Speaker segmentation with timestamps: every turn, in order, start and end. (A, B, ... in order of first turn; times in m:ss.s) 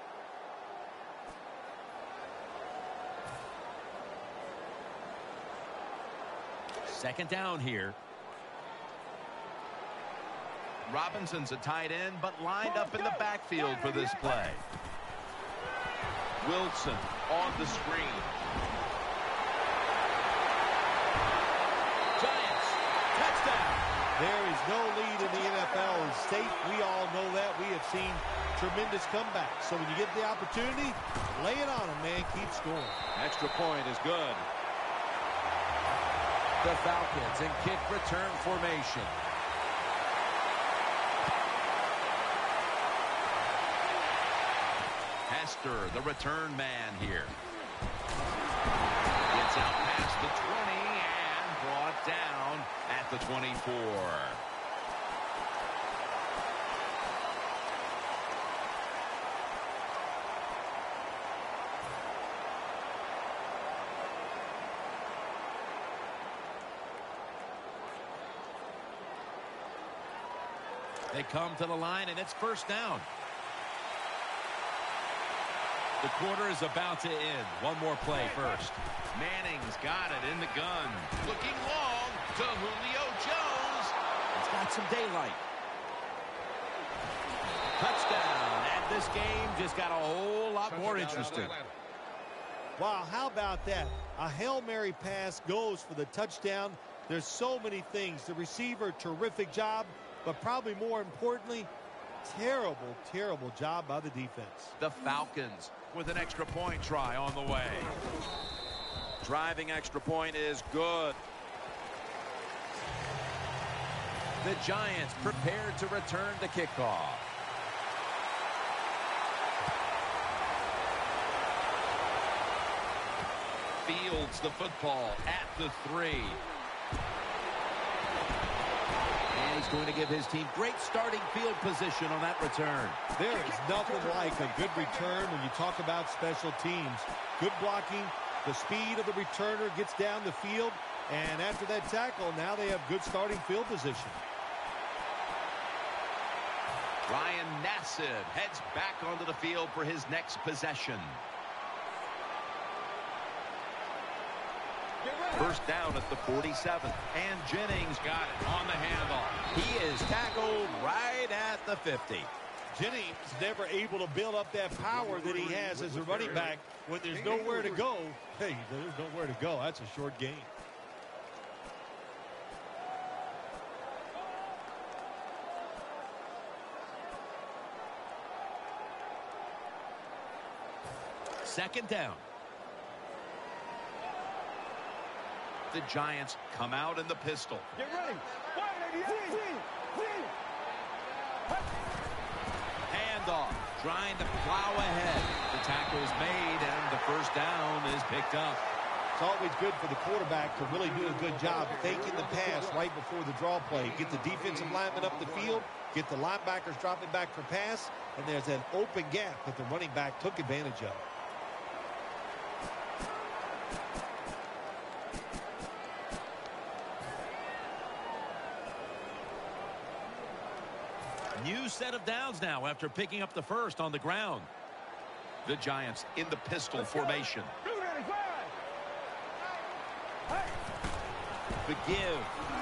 0:06.8-0:08.0 A
0:10.9-0:14.6 A
0:16.4-0:18.4 A
0:22.2-0:23.8 A
0:24.2-0:33.0 B
0:33.1-0:34.5 A
0:36.6-0:39.2 A
0:45.3-0:47.3 A
0:49.3-0:54.4 A
1:11.1-1:13.1 A
1:16.0-1:25.4 A
1:27.7-1:31.6 A
1:32.8-1:41.7 B
1:42.2-1:44.8 B
1:44.8-1:47.9 A
1:49.2-1:51.2 A
1:54.4-1:57.2 A
2:03.8-2:06.4 A
2:09.3-2:13.0 A
2:13.1-2:24.2 B
2:27.1-2:31.2 A
2:35.4-2:42.3 A
2:42.7-2:50.5 B
3:01.4-3:02.2 A
3:05.7-3:07.7 A
3:07.8-3:09.8 C
3:12.9-3:18.6 A
3:19.2-3:31.0 B
3:41.3-3:44.5 A
3:45.4-3:47.5 A
3:47.6-3:48.5 C
3:51.6-3:52.3 A